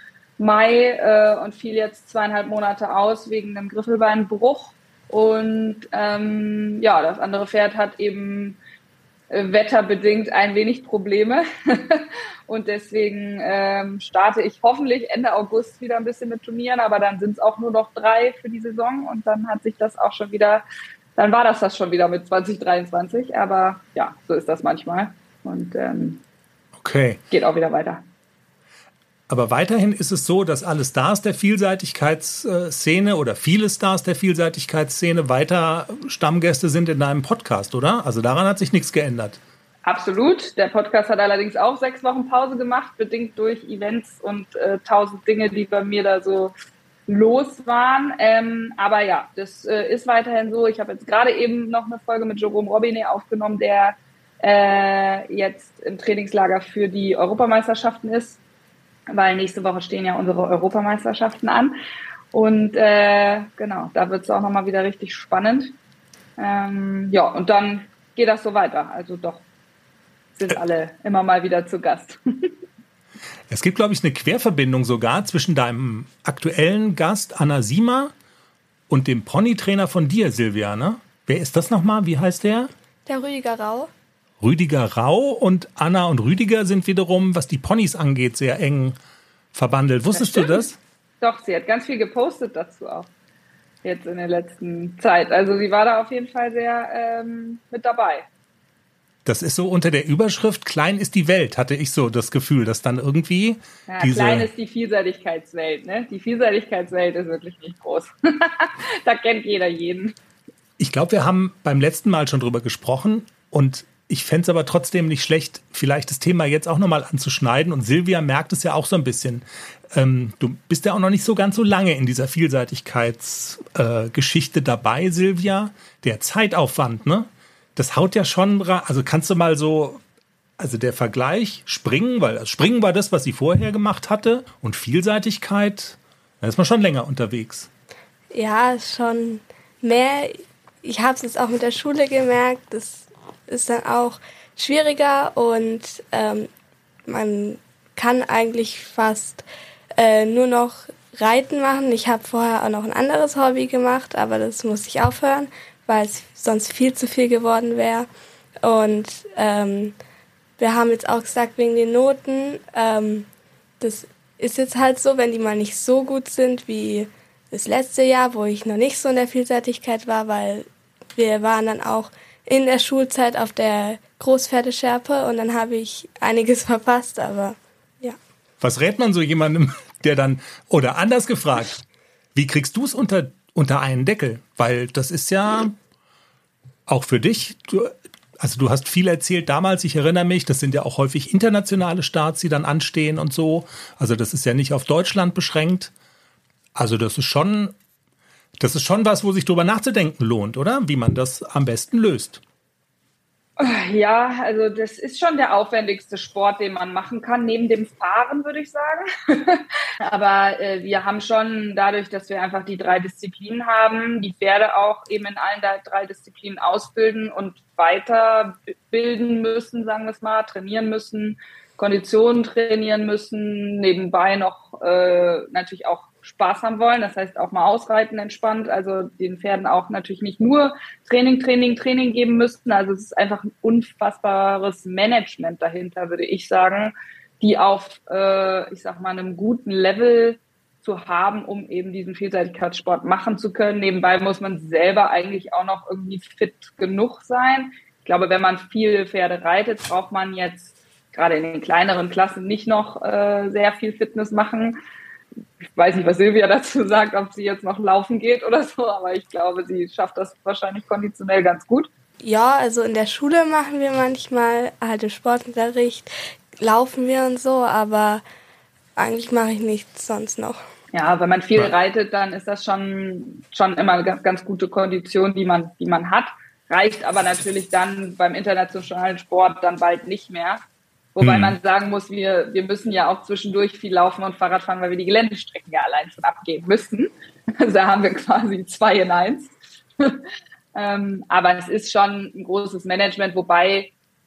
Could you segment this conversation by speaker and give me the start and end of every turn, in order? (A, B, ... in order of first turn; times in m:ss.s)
0:00.4-0:08.6 A
0:09.3-0:20.6 A
0:21.2-0:26.2 A
0:26.8-0:27.2 B
0:27.3-0:28.0 A
0:29.3-0:39.4 B
0:39.9-0:46.5 A
0:47.1-0:58.4 A
0:59.1-1:01.8 A
1:02.3-1:05.8 A
1:06.4-1:09.4 A
1:10.4-1:12.5 A
1:13.5-1:18.1 B
1:18.9-1:22.7 B
1:23.1-1:23.9 C
1:24.4-1:29.0 B
1:29.5-1:30.8 B
1:30.1-1:30.6 A
1:31.2-1:33.1 A
1:33.8-1:38.3 A
1:39.2-1:44.5 B
1:43.9-1:50.2 A
1:50.8-2:10.0 B
2:10.6-2:17.7 B
2:18.3-2:26.5 C
2:27.1-2:29.4 C
2:30.0-2:38.1 C
2:38.6-2:40.0 C
2:40.6-2:43.3 C
2:43.8-2:58.2 C
2:58.6-3:01.8 B
3:02.4-3:05.8 B
3:06.9-3:15.9 B
3:16.8-3:17.7 B
3:18.6-3:22.4 B
3:23.6-4:14.8 A
4:15.8-4:21.9 A
4:22.2-4:28.2 C
4:29.0-4:30.6 C
4:30.9-4:40.6 A
4:41.2-4:50.2 A
4:41.2-4:41.6 B
4:50.8-4:53.9 A